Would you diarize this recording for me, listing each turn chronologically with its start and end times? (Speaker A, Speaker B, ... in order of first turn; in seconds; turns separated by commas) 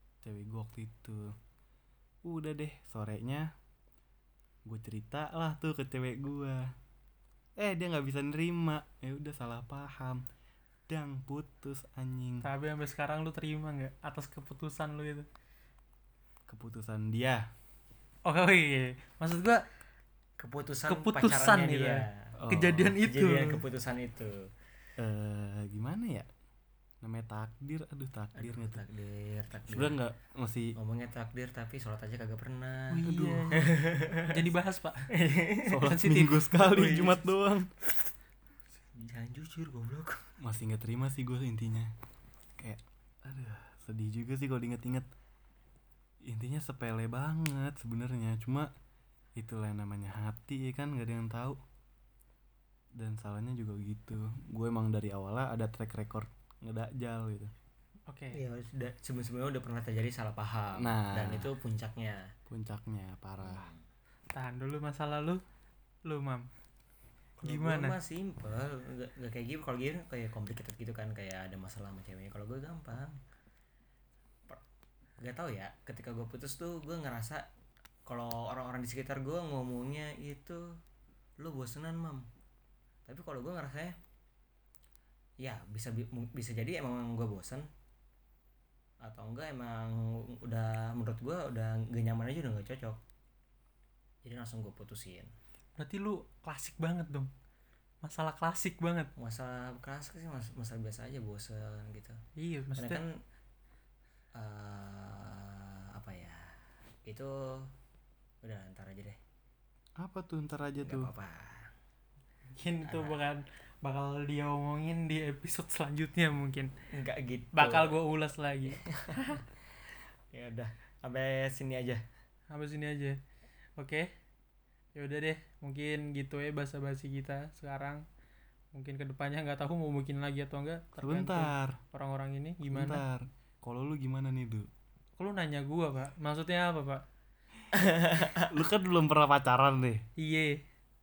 Speaker A: 0.2-1.3, Speaker A: 2.2-3.5, Speaker A: 4.7-6.7, Speaker A: 7.6-10.2, Speaker A: 10.9-12.5, Speaker B: 12.4-15.3, Speaker A: 16.5-17.5, Speaker B: 18.2-19.6, Speaker C: 20.4-22.4, Speaker B: 20.9-23.6, Speaker A: 22.4-23.0, Speaker C: 23.0-24.5, Speaker A: 25.0-26.3, Speaker A: 27.0-28.8, Speaker C: 28.4-30.0, Speaker A: 29.7-30.8, Speaker C: 30.8-34.5, Speaker B: 32.9-35.1, Speaker A: 32.9-33.6, Speaker C: 35.1-35.9, Speaker A: 35.7-37.7, Speaker B: 35.9-36.5, Speaker C: 36.5-37.2, Speaker C: 38.9-40.3, Speaker A: 40.4-41.9, Speaker A: 42.6-45.1, Speaker A: 46.2-48.7, Speaker A: 49.4-51.6, Speaker A: 53.0-57.5, Speaker B: 58.1-58.4, Speaker C: 58.3-62.3, Speaker A: 60.7-61.5, Speaker A: 62.5-63.7, Speaker C: 63.4-63.8, Speaker B: 64.3-65.4, Speaker B: 66.1-66.5, Speaker C: 67.4-73.2, Speaker B: 67.5-68.0, Speaker C: 75.2-77.5, Speaker C: 78.1-80.8, Speaker C: 81.4-82.3, Speaker C: 83.1-84.0, Speaker C: 85.4-87.7, Speaker C: 89.0-93.0, Speaker C: 94.2-95.3, Speaker B: 95.8-97.3, Speaker B: 98.0-99.1, Speaker C: 99.2-102.2, Speaker B: 102.4-103.0, Speaker C: 102.8-103.1, Speaker C: 104.3-106.5, Speaker C: 107.0-107.7, Speaker C: 108.4-109.2, Speaker A: 110.0-111.1, Speaker C: 110.8-111.7, Speaker B: 112.6-116.7, Speaker C: 112.8-113.2, Speaker C: 116.9-118.0, Speaker B: 117.5-119.4, Speaker C: 118.7-119.4, Speaker C: 120.3-122.0, Speaker B: 122.5-123.2, Speaker B: 123.8-124.1, Speaker B: 125.0-128.1, Speaker B: 128.7-133.0, Speaker A: 131.0-131.8, Speaker A: 132.7-134.7, Speaker B: 135.2-137.0, Speaker C: 137.7-138.5, Speaker A: 138.3-140.0, Speaker B: 140.2-140.6